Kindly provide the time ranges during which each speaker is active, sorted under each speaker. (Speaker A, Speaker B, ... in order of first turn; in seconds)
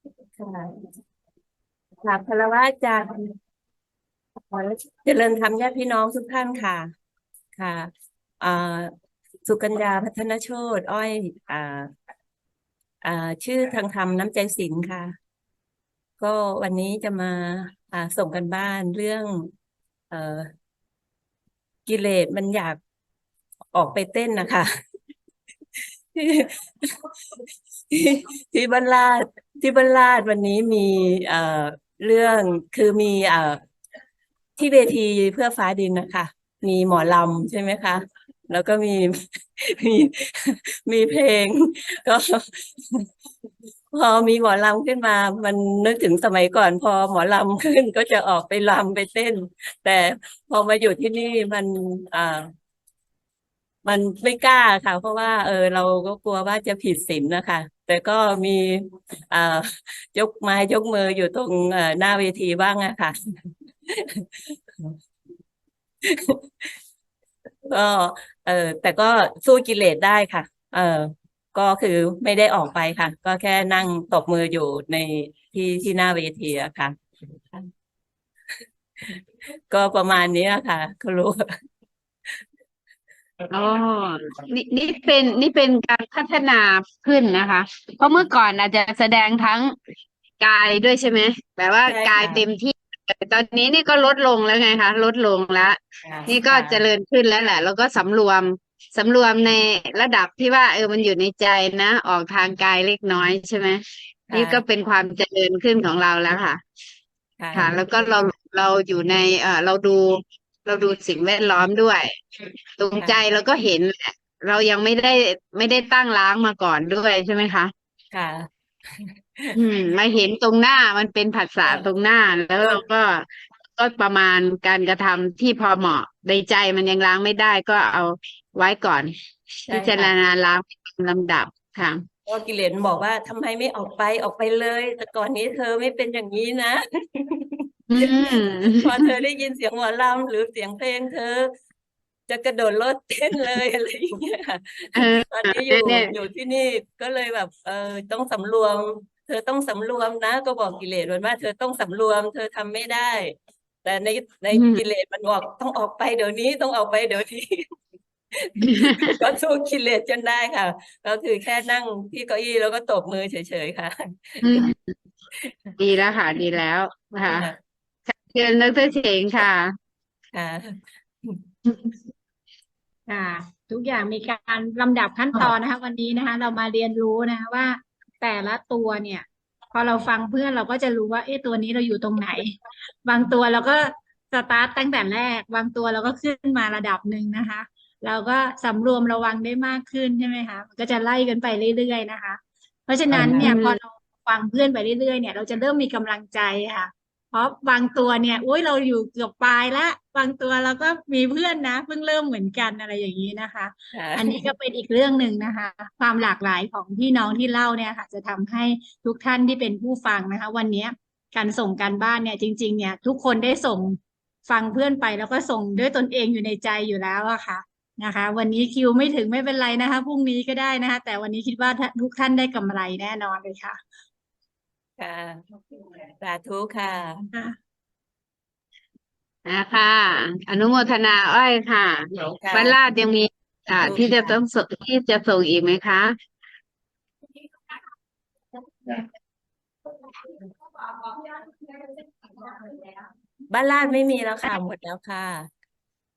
Speaker A: 0.4-0.9, 2.0-3.3, 4.5-6.9, 7.5-8.9, 9.4-11.9, 13.0-15.2, 16.2-19.5, 20.1-20.5, 21.9-22.8, 23.7-24.7, 26.1-27.1, 27.9-33.6, 34.6-43.0, 43.9-52.5, 53.8-63.1, 63.9-65.0, 66.0-66.7, 67.7-77.0, 79.7-81.5, 91.8-92.4, 96.0-96.8, 104.3-104.6, 107.4-107.8, 118.1-119.5, 129.7-130.1, 132.2-138.1, 138.8-141.5, 142.3-157.7, 158.3-164.6, 165.4-165.7, 167.3-167.6, 170.3-171.4, 193.1-193.5, 203.9-204.4, 225.0-227.3, 232.3-232.8, 233.8-234.4, 243.5-245.5
Speaker B: 83.5-89.7, 90.4-103.8, 104.3-106.6, 107.5-112.2, 112.8-117.7, 119.5-129.1, 129.7-132.0, 137.9-139.0, 144.9-146.1, 154.5-154.8, 158.6-159.1, 164.4-164.9, 165.8-167.5, 168.1-169.7, 193.4-193.8, 229.4-236.1
Speaker C: 173.1-223.8